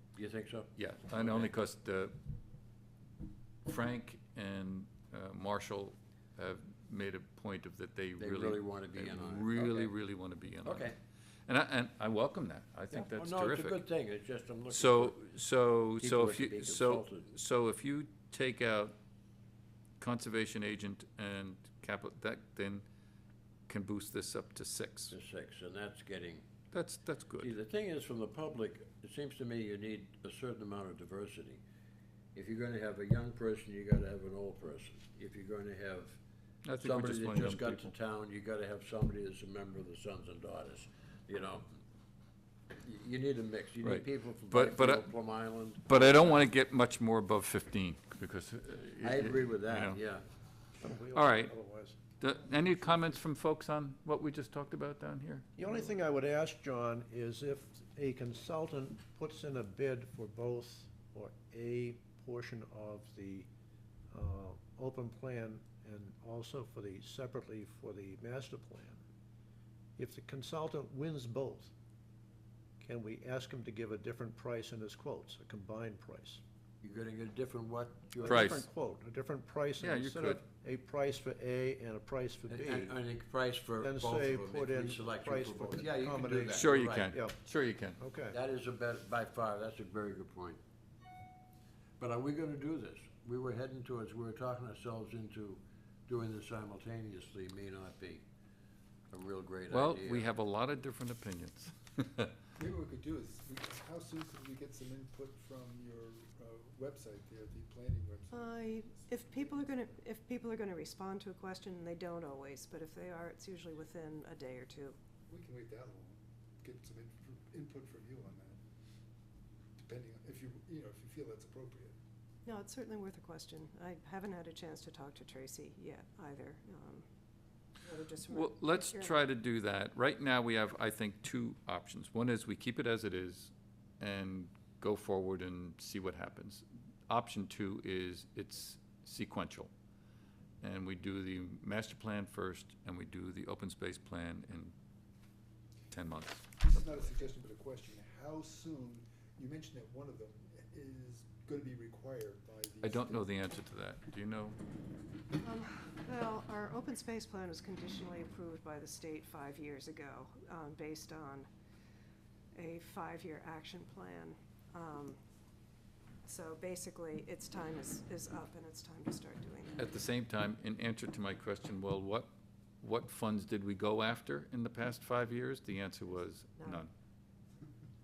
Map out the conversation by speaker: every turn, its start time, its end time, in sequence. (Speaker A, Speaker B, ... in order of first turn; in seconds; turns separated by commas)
Speaker A: 0.1-1.5, Speaker B: 0.8-2.1, Speaker B: 3.6-10.9, Speaker A: 8.2-9.9, Speaker A: 10.6-11.0, Speaker B: 11.5-13.8, Speaker A: 12.9-15.2, Speaker B: 14.7-18.9, Speaker A: 16.0-17.3, Speaker B: 20.0-22.9, Speaker B: 23.7-25.1, Speaker A: 25.1-26.4, Speaker B: 26.7-27.5, Speaker A: 27.4-31.6, Speaker A: 32.4-36.2, Speaker B: 36.6-37.9, Speaker A: 36.8-41.7, Speaker A: 42.7-46.4, Speaker B: 43.8-45.1, Speaker B: 45.8-50.0, Speaker A: 49.0-50.2, Speaker C: 50.8-52.0, Speaker B: 51.1-51.5, Speaker B: 52.2-55.6, Speaker C: 55.6-63.5, Speaker C: 64.1-69.0, Speaker C: 70.0-71.7, Speaker C: 72.8-76.4, Speaker A: 76.8-78.6, Speaker C: 78.2-83.0, Speaker B: 78.2-78.6, Speaker B: 79.8-80.4, Speaker A: 82.5-87.1, Speaker C: 83.8-87.4, Speaker B: 86.5-88.0, Speaker C: 88.0-88.4, Speaker A: 88.3-90.6, Speaker A: 92.0-98.2, Speaker A: 99.1-100.3, Speaker B: 99.7-102.3, Speaker D: 102.6-109.9, Speaker E: 108.3-115.0, Speaker D: 115.3-118.6, Speaker D: 119.8-122.0, Speaker E: 122.5-127.1, Speaker E: 127.8-129.2, Speaker B: 128.3-139.7, Speaker B: 140.6-144.7, Speaker B: 145.9-147.1, Speaker D: 146.6-153.3, Speaker B: 152.8-154.6, Speaker E: 155.4-161.5, Speaker E: 162.5-165.2, Speaker E: 166.2-169.9, Speaker B: 169.8-172.3, Speaker B: 172.8-176.9, Speaker E: 176.6-176.8